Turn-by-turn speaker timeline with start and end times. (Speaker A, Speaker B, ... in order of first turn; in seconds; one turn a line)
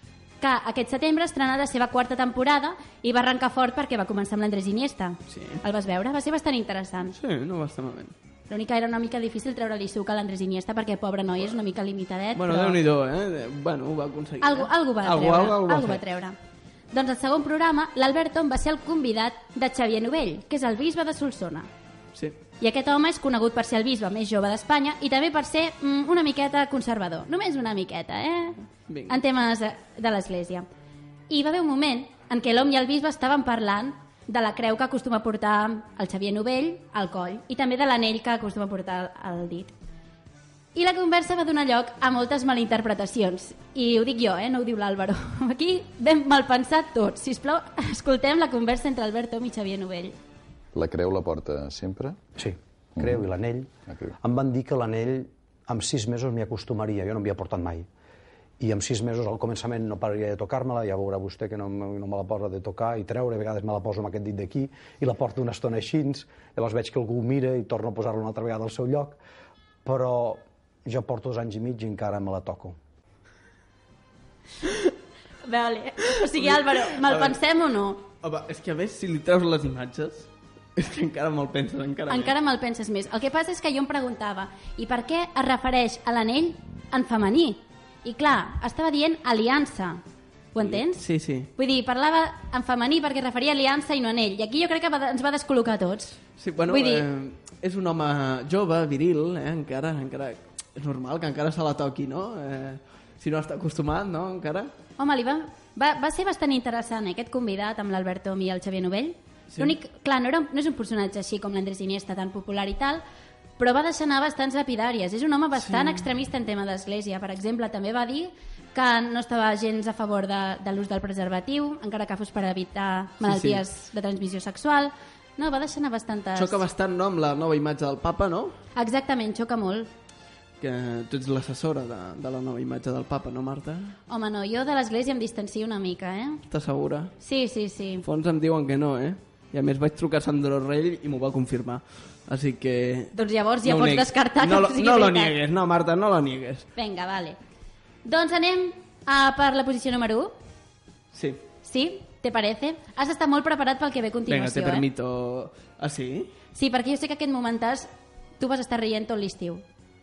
Speaker A: 0.4-7.2
Speaker B: 5.3-5.6
Speaker B: 7.1-8.1
Speaker A: 8.5-12.8
Speaker B: 12.3-16.0
Speaker A: 14.4-16.4
Speaker A: 16.9-21.7
Speaker A: 22.6-30.7
Speaker B: 28.9-29.2
Speaker A: 31.3-39.7
Speaker A: 40.8-50.2
Speaker C: 50.7-52.2
Speaker D: 52.4-57.9
Speaker C: 53.0-53.2
Speaker C: 53.9-54.1
Speaker D: 58.6-69.2
Speaker D: 69.8-72.8
Speaker A: 75.5-78.0
Speaker B: 76.3-77.4
Speaker B: 78.2-82.3
Speaker A: 82.1-90.0
Speaker A: 90.5-91.0
Speaker B: 90.6-91.5
Speaker A: 91.6-97.0
Speaker B: 96.4-104.7
Speaker A: 105.0-113.0
Speaker A: 113.6-126.6
Speaker B: 115.7-116.1
Speaker B: 123.2-123.6
Speaker B: 126.4-128.6
Speaker A: 128.8-129.9
Speaker B: 130.6-134.0
Speaker A: 134.1-136.4
Speaker B: 136.5-137.1
Speaker A: 137.2-138.1
Speaker B: 138.0-146.7
Speaker A: 143.2-145.3
Speaker A: 146.8-147.4
Speaker A: 148.1-150.3
Speaker B: 151.1-151.4
Speaker A: 151.6-154.9
Speaker B: 154.3-156.3
Speaker A: 156.6-159.6